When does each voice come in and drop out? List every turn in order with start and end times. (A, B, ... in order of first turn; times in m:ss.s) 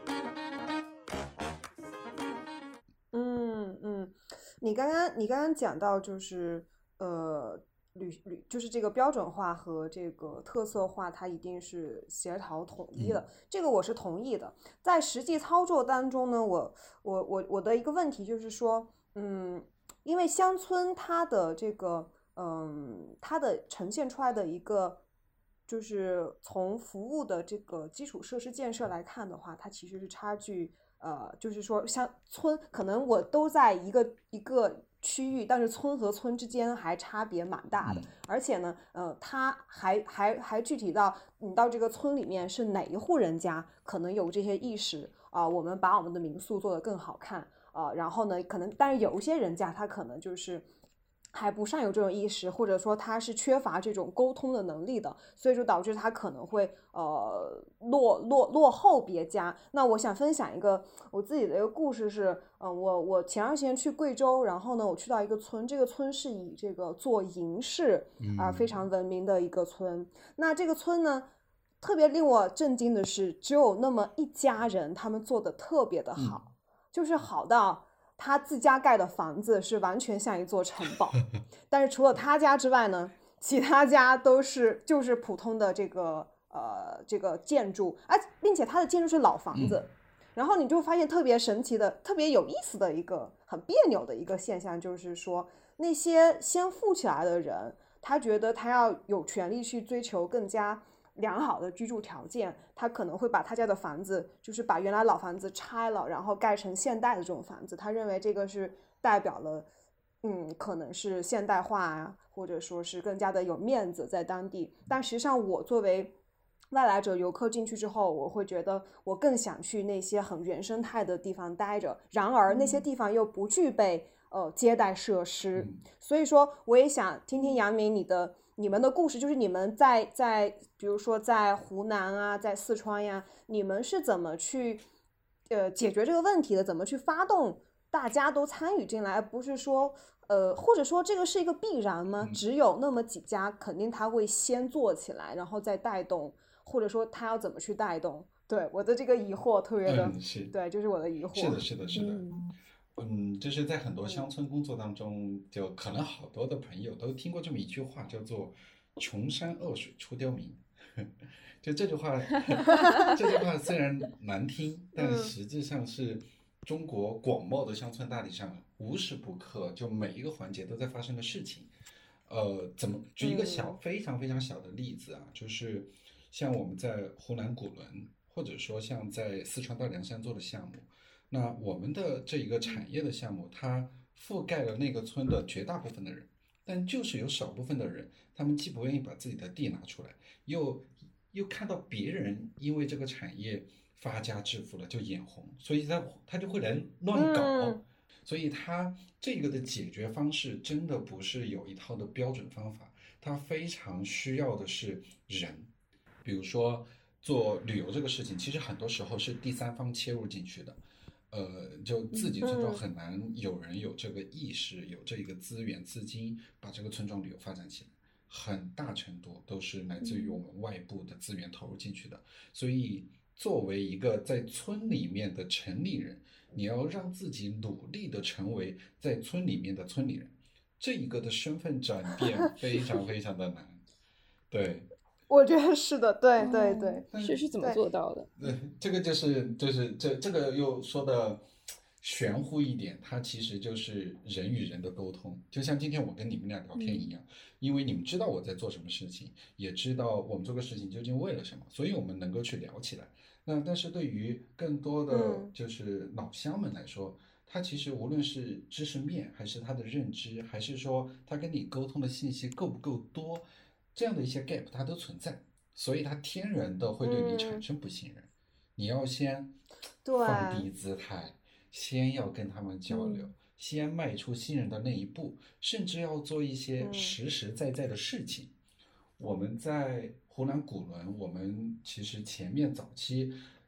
0:03.1-0:25.0 A
0:25.7-0:50.6 A
0:37.8-0:38.1 B
0:51.3-1:11.3 A
1:08.2-1:08.8 B
1:11.8-1:49.7 A
1:29.5-1:29.8 B
1:50.2-1:56.2 A
1:56.7-2:14.8 A
2:02.5-2:02.8 C
2:05.5-2:05.8 B
2:15.5-2:31.6 A
2:29.8-2:30.5 B
2:31.3-2:32.2 B
2:31.9-2:32.4 C
2:33.0-2:51.7 B
2:42.7-2:43.1 A
2:45.0-2:45.3 A
2:52.2-3:25.7 B
2:53.2-2:53.8 A
3:17.1-3:17.8 A
3:26.2-3:30.8 B
3:31.3-3:53.8 B
3:32.1-3:32.4 C
3:32.4-3:32.8 A
3:40.0-3:40.4 C
3:54.5-3:54.9 B
3:55.3-3:57.0 A
3:56.4-3:58.3 C
3:57.1-3:57.4 B
3:58.4-4:01.4 B
4:02.0-4:29.6 B
4:06.7-4:07.1 C
4:15.1-4:15.5 A
4:27.0-4:27.6 A
4:30.0-4:30.7 A
4:30.2-4:38.5 B
4:32.9-4:33.2 C
4:36.8-4:37.2 A
4:39.2-4:43.4 B